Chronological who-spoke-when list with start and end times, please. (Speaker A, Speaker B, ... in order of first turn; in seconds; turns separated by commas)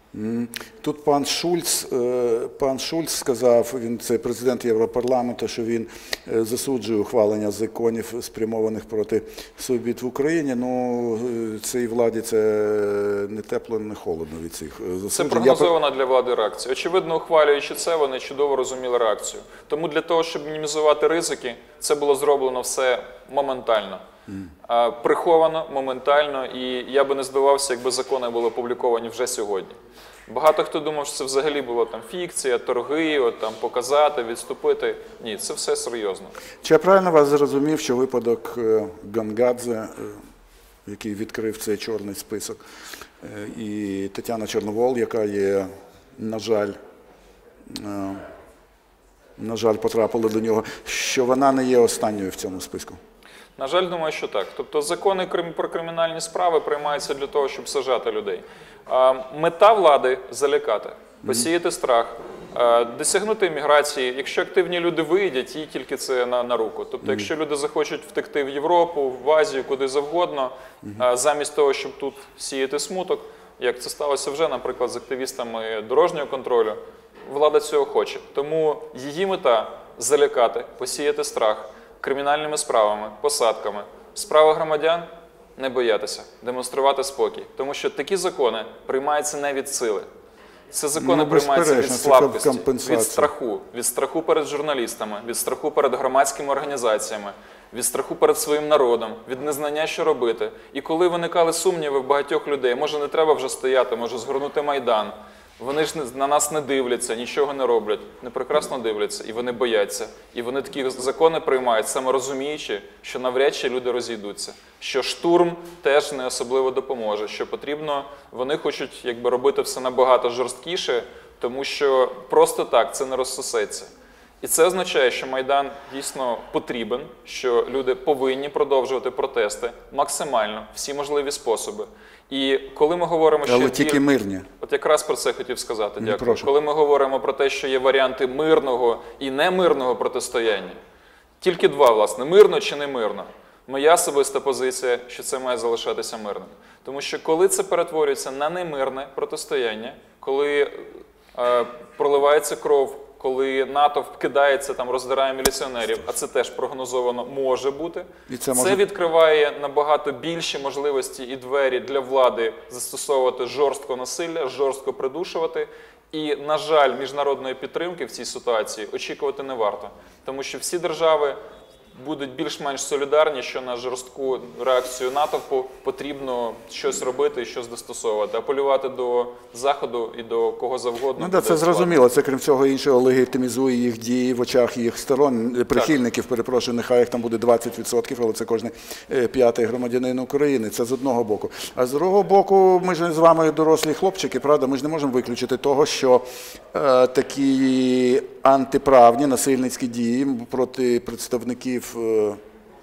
Speaker A: 0.1-15.7, Speaker B: 15.1-24.0, Speaker B: 24.6-29.8, Speaker B: 30.3-36.3, Speaker A: 36.6-40.2, Speaker A: 40.9-42.6, Speaker A: 43.2-46.8, Speaker A: 47.7-48.2, Speaker A: 49.4-53.0, Speaker B: 53.6-90.0, Speaker A: 67.0-67.3, Speaker B: 90.7-123.9, Speaker A: 91.0-93.3, Speaker B: 124.4-134.0, Speaker A: 133.4-134.4, Speaker B: 134.6-140.8, Speaker A: 136.0-136.5, Speaker B: 141.4-171.4, Speaker A: 158.3-158.8, Speaker B: 171.9-181.9, Speaker A: 181.2-202.4